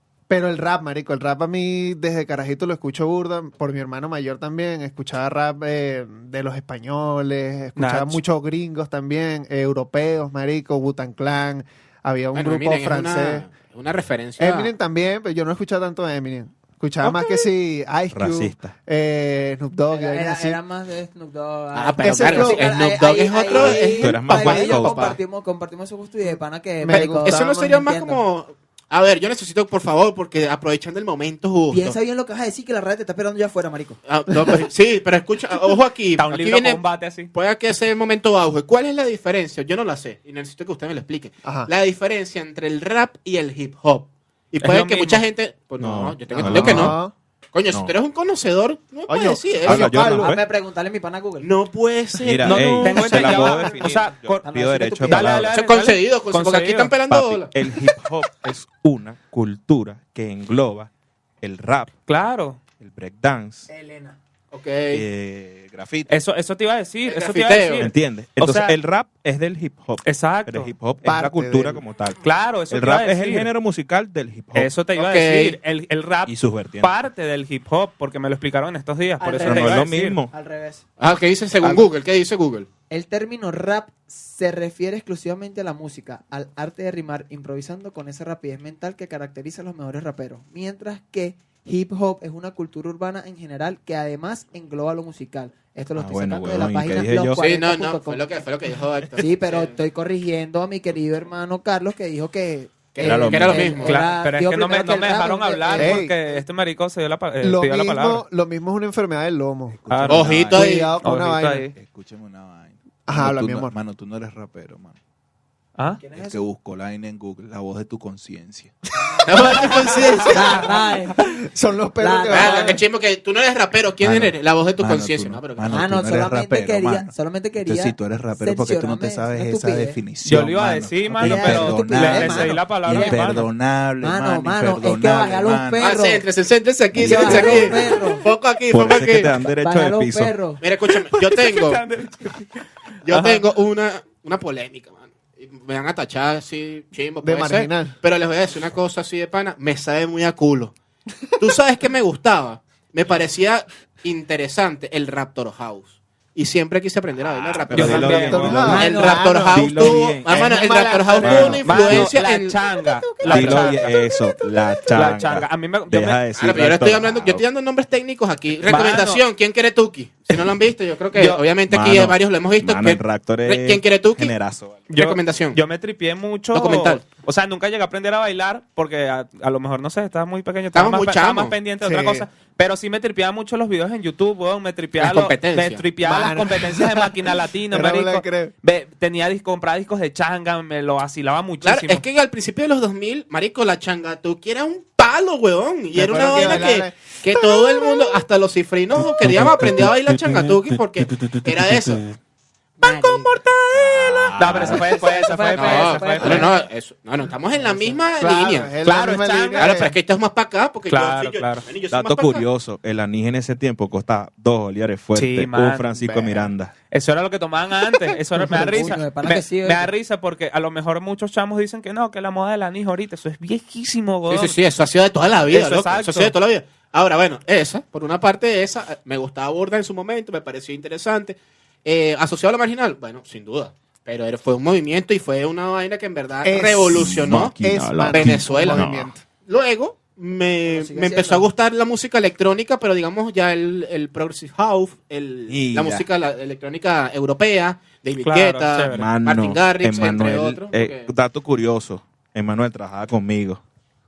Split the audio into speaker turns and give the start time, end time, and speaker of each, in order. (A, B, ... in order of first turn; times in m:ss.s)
0:00.3-0:13.5 A
0:07.8-0:08.2 B
0:12.3-0:14.7 C
0:14.4-0:20.6 A
0:18.1-0:18.7 D
0:19.9-0:28.2 E
0:21.7-0:25.2 C
0:22.0-0:22.7 A
0:23.4-0:25.1 D
0:26.8-0:27.8 A
0:26.9-0:32.0 C
0:31.7-0:34.0 E
0:34.0-0:36.8 C
0:36.2-0:37.3 B
0:37.3-0:47.0 C
0:41.4-0:41.7 A
0:44.6-0:45.2 B
0:45.8-0:47.0 D
0:46.3-0:47.1 A
0:47.5-0:50.1 C
0:49.1-0:50.3 A
0:49.6-0:50.4 D
0:50.0-0:51.5 E
0:51.4-0:53.6 C
0:52.2-0:55.5 D
0:52.4-0:54.4 B
0:54.4-0:55.5 E
0:55.0-0:56.9 B
0:55.5-0:57.5 C
0:57.1-1:01.9 D
1:02.1-1:02.6 B
1:02.8-1:03.7 D
1:03.7-1:04.2 E
1:04.5-1:05.0 C
1:04.9-1:06.1 D
1:06.1-1:08.8 B
1:07.1-1:07.9 C
1:07.8-1:14.8 D
1:10.0-1:10.7 B
1:11.0-1:11.8 A
1:12.2-1:13.5 B
1:14.5-1:20.2 B
1:14.9-1:15.6 C
1:16.2-1:16.9 D
1:19.2-1:20.8 E
1:19.4-1:20.3 D
1:21.0-1:22.7 C
1:22.9-1:38.2 E
1:36.0-1:37.4 D
1:37.4-1:39.8 C
1:39.2-1:46.0 E
1:42.9-1:44.0 C
1:43.0-1:43.8 D
1:43.8-1:48.2 B
1:45.8-1:46.2 A
1:47.4-1:49.8 A
1:49.7-1:50.7 F
1:49.9-1:51.7 B
1:50.1-1:50.9 C
1:50.5-1:51.7 A
1:51.7-1:55.0 F
1:53.1-1:53.7 A
1:56.0-1:56.4 E
1:56.1-1:58.8 F
1:58.9-2:01.2 E
1:59.2-2:00.7 C
1:59.4-2:00.5 B
1:59.5-2:00.2 A
2:01.2-2:02.8 A
2:02.0-2:02.8 E
2:02.3-2:05.8 C
2:04.0-2:16.0 F
2:05.7-2:10.0 E
2:10.2-2:13.5 B
2:10.4-2:11.1 D
2:11.1-2:13.4 E
2:14.0-2:16.2 E
2:15.8-2:19.4 C
2:16.9-2:17.9 D
2:17.0-2:18.2 E
2:18.7-2:20.4 D
2:19.6-2:20.6 E
2:20.6-2:21.8 C
2:21.1-2:23.4 B
2:23.0-2:30.7 C
2:27.2-2:28.0 A
2:31.4-2:42.5 C
2:37.2-2:42.1 D
2:37.7-2:38.8 B
2:37.8-2:41.6 A
2:38.6-2:39.2 E
2:41.6-2:43.9 B
2:43.2-2:47.4 D
2:43.3-2:43.7 C
2:44.9-2:46.2 B
2:46.3-2:54.3 C
2:48.6-2:49.2 B
2:51.1-2:51.4 B
2:51.7-2:54.9 D
2:54.9-3:12.0 B
2:54.9-2:55.6 C
2:56.5-2:57.0 C
3:00.7-3:01.5 C
3:01.8-3:02.2 A
3:05.0-3:05.8 C
3:06.0-3:08.5 A
3:11.6-3:22.2 C
3:15.9-3:18.2 A
3:19.2-3:19.7 D
3:22.8-3:24.8 C
3:22.8-3:23.4 E
3:23.7-3:24.8 D
3:24.4-3:26.5 B
3:24.5-3:26.6 E
3:25.5-3:28.7 C
3:27.6-3:28.0 E
3:28.2-3:29.9 A
3:28.8-3:29.9 B
3:29.6-3:32.4 C
3:30.9-3:31.7 B
3:31.9-3:36.7 D
3:35.1-3:35.9 B
3:36.9-3:44.5 B
3:38.4-3:39.9 E
3:44.3-3:57.5 C
3:45.5-3:46.3 B
3:56.4-3:59.2 A
3:56.9-3:59.1 D
3:58.1-3:58.8 C
3:59.4-4:11.1 C
4:00.6-4:01.4 E
4:05.5-4:06.0 D
4:08.2-4:09.1 B
4:08.9-4:13.6 D